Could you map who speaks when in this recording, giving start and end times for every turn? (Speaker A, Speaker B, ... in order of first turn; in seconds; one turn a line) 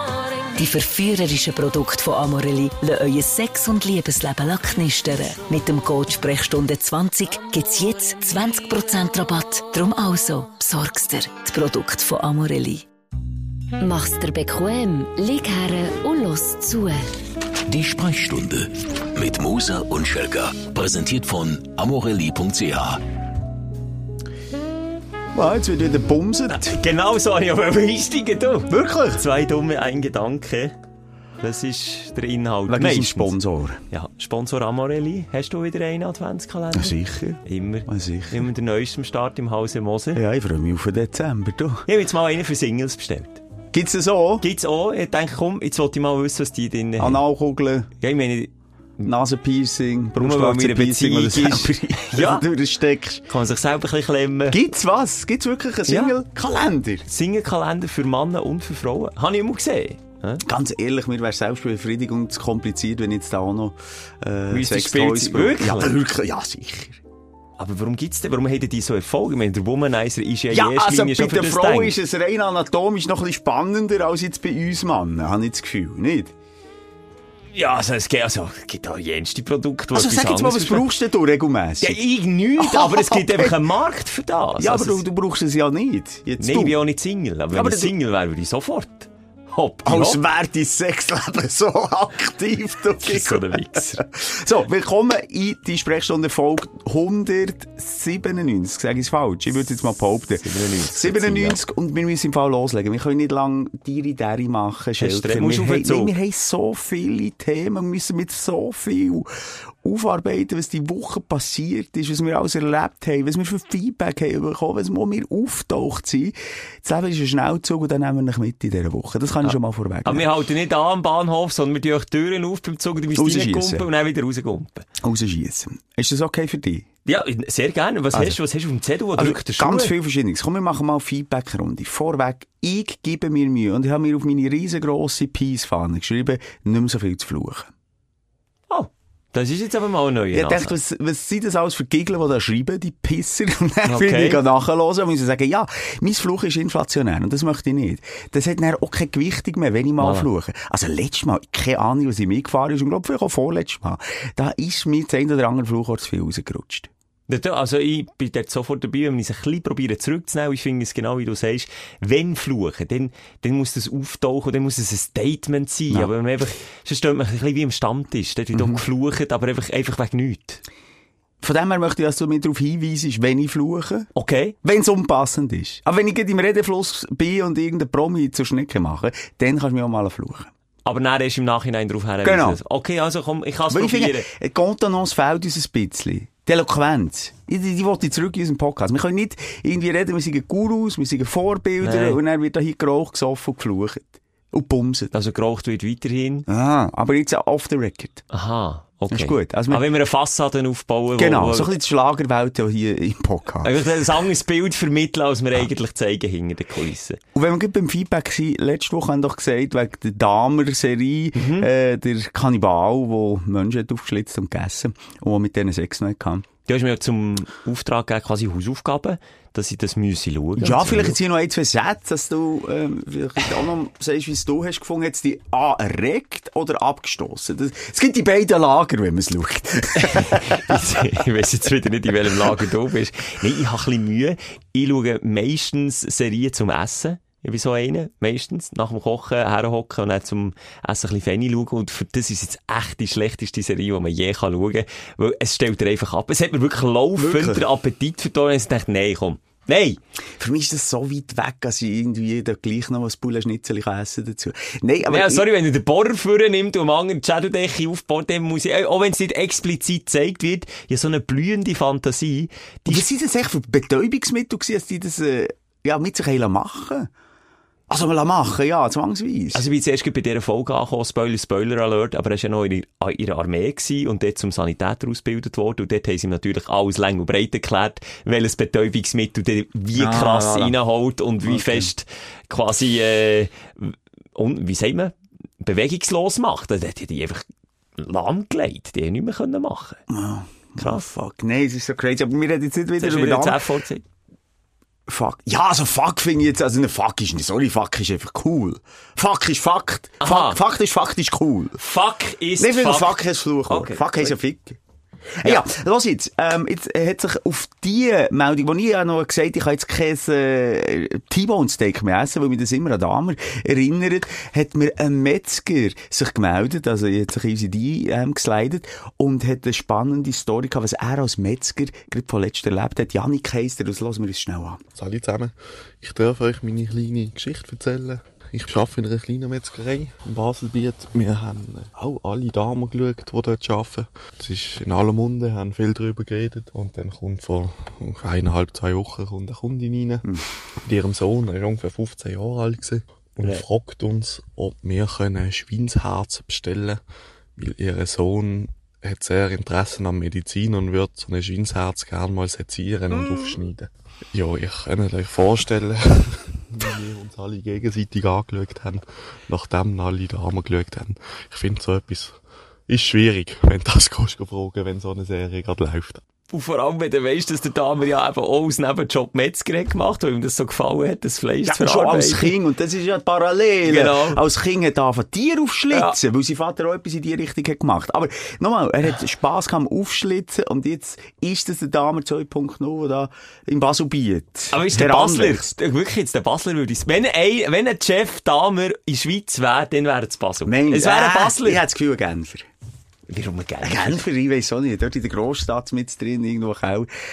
Speaker A: 0.6-12.8
Speaker B: 13.8-17.1
Speaker C: 17.7-23.0
Speaker D: 25.3-26.8
Speaker E: 26.5-30.7
Speaker D: 28.7-29.2
Speaker E: 31.4-33.4
Speaker D: 32.7-33.8
Speaker E: 33.9-40.2
Speaker D: 36.7-38.5
Speaker D: 40.1-41.9
Speaker E: 41.9-43.4
Speaker D: 43.7-44.4
Speaker E: 44.4-47.2
Speaker D: 47.0-47.9
Speaker E: 48.0-49.1
Speaker D: 49.0-53.2
Speaker E: 50.2-52.4
Speaker E: 53.3-54.6
Speaker D: 54.5-57.0
Speaker E: 55.9-56.2
Speaker E: 57.1-60.4
Speaker D: 60.4-67.0
Speaker E: 64.5-66.0
Speaker E: 67.6-71.9
Speaker D: 70.5-76.3
Speaker E: 77.5-80.9
Speaker D: 79.9-82.0
Speaker E: 81.8-85.0
Speaker D: 82.6-83.6
Speaker D: 84.6-86.8
Speaker E: 86.4-90.2
Speaker D: 87.5-87.9
Speaker D: 89.8-109.3
Speaker E: 93.0-94.0
Speaker E: 100.4-101.6
Speaker E: 105.0-106.1
Speaker D: 109.8-120.2
Speaker E: 120.0-124.8
Speaker D: 123.2-123.9
Speaker D: 125.0-126.9
Speaker E: 127.0-129.9
Speaker D: 129.2-137.7
Speaker E: 138.7-140.7
Speaker D: 140.3-156.9
Speaker E: 143.8-144.4
Speaker E: 150.0-150.3
Speaker E: 157.3-170.6
Speaker D: 168.5-168.8
Speaker D: 171.4-174.1
Speaker E: 174.1-174.5
Speaker D: 174.6-180.5
Speaker E: 180.8-184.3
Speaker D: 182.2-182.6
Speaker D: 183.7-195.1
Speaker E: 191.8-192.2
Speaker E: 195.1-196.4
Speaker D: 196.5-198.2
Speaker E: 198.3-201.7
Speaker D: 199.1-199.8
Speaker D: 201.1-203.8
Speaker E: 203.6-207.2
Speaker D: 207.3-216.4
Speaker E: 211.3-211.7
Speaker E: 216.7-221.2
Speaker D: 220.6-231.1
Speaker E: 230.0-250.0
Speaker D: 232.2-232.6
Speaker D: 247.2-247.6
Speaker D: 250.4-255.5
Speaker E: 255.1-263.0
Speaker D: 262.9-267.1
Speaker D: 267.9-269.6
Speaker E: 269.5-287.4
Speaker D: 279.9-280.7
Speaker D: 281.4-281.9
Speaker E: 288.0-290.0
Speaker D: 290.1-293.6
Speaker E: 290.8-291.1
Speaker E: 293.0-294.0
Speaker D: 295.1-301.8
Speaker E: 300.2-300.6
Speaker E: 301.8-304.3
Speaker D: 302.6-304.8
Speaker D: 305.4-324.8
Speaker F: 324.9-340.3
Speaker F: 340.8-347.0
Speaker E: 343.4-343.6
Speaker F: 347.6-362.4
Speaker F: 362.9-366.2
Speaker E: 366.5-372.5
Speaker D: 371.6-385.7
Speaker E: 373.9-374.4
Speaker E: 375.9-376.1
Speaker E: 384.7-391.8
Speaker D: 390.6-392.7
Speaker E: 393.3-394.2
Speaker D: 393.8-397.1